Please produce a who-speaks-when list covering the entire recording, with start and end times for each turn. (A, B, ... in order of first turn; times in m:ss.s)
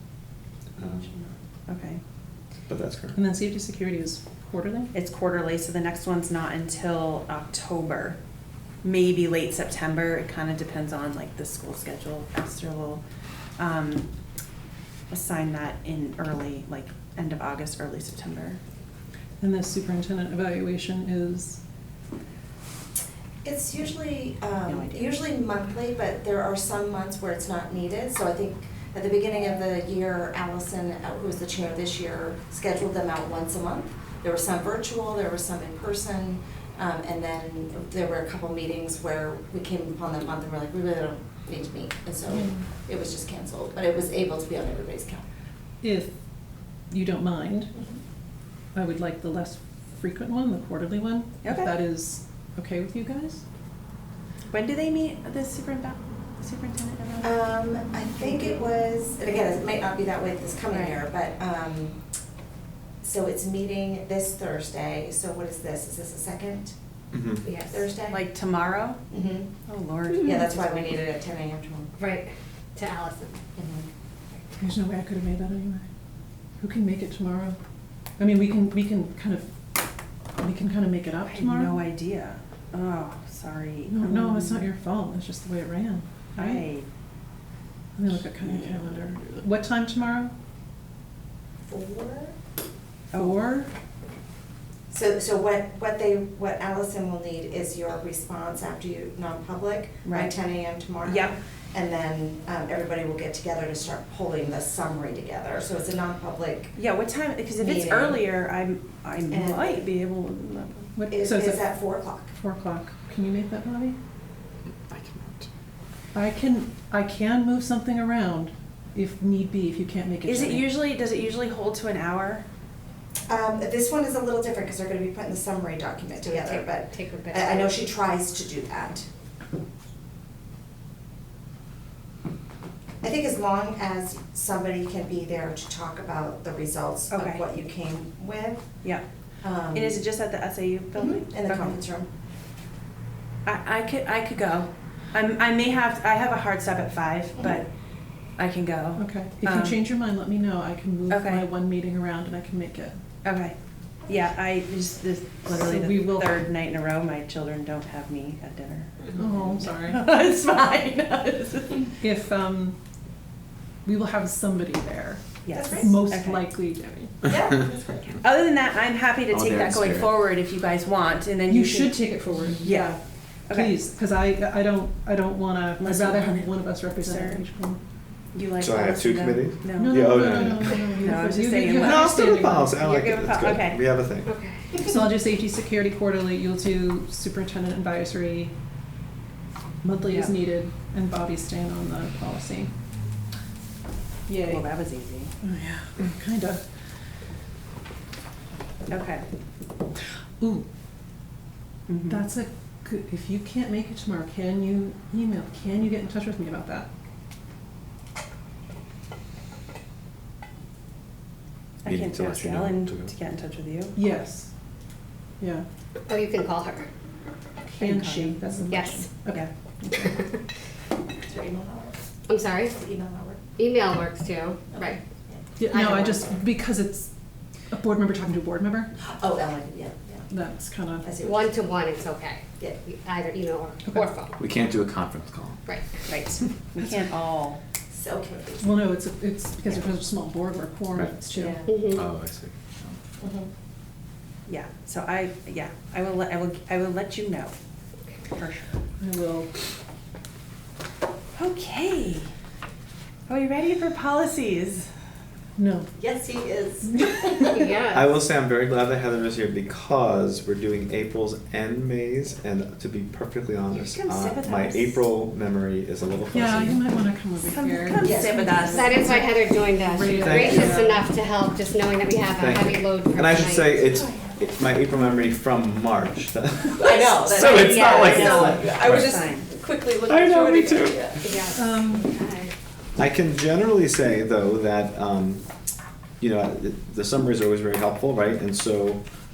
0:00.8-0:01.1 A
0:00.8-0:02.0 B
0:02.7-0:03.2 A
0:03.1-0:04.9 C
0:04.9-0:08.2 B
0:08.8-0:13.0 B
0:13.6-0:14.1 B
0:15.1-0:18.6 B
0:19.4-0:21.6 C
0:23.4-0:45.2 D
0:24.7-0:25.2 B
0:42.3-0:42.6 C
0:45.8-0:46.2 C
0:46.9-0:47.7 C
0:48.7-0:53.4 C
0:51.4-0:51.7 B
0:54.5-0:57.4 B
0:57.2-1:02.0 D
1:00.7-1:01.0 B
1:03.0-1:06.7 D
1:07.1-1:07.4 A
1:07.4-1:07.9 E
1:07.7-1:08.3 D
1:08.1-1:09.0 B
1:09.1-1:09.5 D
1:09.6-1:11.0 B
1:10.2-1:11.9 D
1:12.0-1:13.4 E
1:13.6-1:13.9 D
1:14.6-1:15.9 C
1:16.6-1:17.6 C
1:18.2-1:19.5 C
1:20.4-1:21.8 C
1:21.3-1:24.7 B
1:23.9-1:26.6 C
1:26.4-1:26.8 B
1:28.0-1:30.3 C
1:31.6-1:32.3 D
1:33.1-1:33.4 B
1:33.1-1:33.7 C
1:34.9-1:46.8 D
1:40.0-1:40.3 B
1:41.0-1:41.4 B
1:46.7-1:50.9 B
1:47.6-1:48.3 D
1:49.3-1:49.9 D
1:51.0-1:54.0 C
1:51.1-1:52.3 D
1:54.8-1:55.5 A
1:56.1-2:00.7 C
2:00.2-2:02.4 B
2:03.3-2:09.0 D
2:06.2-2:07.8 E
2:13.0-2:18.7 D
2:17.1-2:17.4 B
2:19.4-2:20.0 D
2:19.7-2:21.8 B
2:21.0-2:22.1 D
2:23.4-2:27.7 B
2:28.4-2:29.8 B
2:29.0-2:33.0 C
2:31.1-2:31.5 B
2:33.2-2:33.5 B
2:34.0-2:42.0 B
2:35.4-2:36.4 C
2:39.1-2:40.1 C
2:42.0-2:42.8 C
2:43.8-2:47.1 C
2:45.4-2:46.5 B
2:45.5-2:45.9 D
2:47.2-2:48.2 D
2:48.2-2:53.8 B
2:49.3-2:50.2 A
2:51.5-2:57.8 C
2:55.8-2:57.4 B
2:58.3-3:03.8 B
2:58.6-3:00.8 A
2:59.7-3:02.8 C
3:01.8-3:04.3 A
3:04.2-3:04.7 E
3:04.8-3:08.5 C
3:09.8-3:12.7 C
3:10.1-3:10.3 B
3:14.3-3:14.6 C
3:14.4-3:15.3 B
3:15.4-3:16.6 C
3:18.9-3:19.2 B
3:20.4-3:20.6 C
3:21.9-3:22.2 B
3:22.1-3:26.9 C
3:31.8-3:34.0 B
3:31.8-3:33.1 A
3:33.9-3:34.5 C
3:35.4-3:35.6 C
3:36.1-3:36.9 E
3:37.7-3:38.6 B
3:37.8-3:40.1 C
3:38.7-3:39.0 E
3:41.2-3:42.0 D
3:42.3-3:42.8 E
3:42.7-3:43.4 D
3:43.6-3:45.0 E
3:44.7-3:45.4 D
3:45.6-3:47.1 C
3:45.7-3:46.3 E
3:47.7-3:48.9 C
3:49.1-3:50.2 D
3:50.3-3:51.1 C
3:51.0-3:51.6 D
3:51.2-3:54.4 E
3:53.8-3:54.1 C
3:54.4-3:55.6 A
3:56.1-3:57.6 B
3:57.9-3:58.7 D
3:58.6-4:01.6 C
4:01.3-4:02.0 E
4:01.9-4:03.0 A
4:03.2-4:03.5 D
4:04.4-4:07.5 B
4:08.3-4:08.7 B
4:09.0-4:09.5 C
4:11.4-4:12.3 B
4:13.3-4:14.9 B
4:15.6-4:15.9 C
4:16.0-4:17.6 D
4:17.4-4:18.1 E
4:17.9-4:26.8 A
4:23.7-4:25.1 B
4:26.3-4:28.2 C
4:27.4-4:29.2 B
4:28.0-4:29.1 D
4:28.7-4:34.0 E
4:29.9-4:31.0 C
4:30.2-4:30.9 A
4:32.4-4:39.2 A
4:36.8-4:41.4 D
4:37.4-4:39.5 B
4:40.1-4:41.2 A
4:41.2-4:42.5 E
4:41.5-4:42.1 C
4:43.0-4:45.4 A
4:46.2-4:49.0 A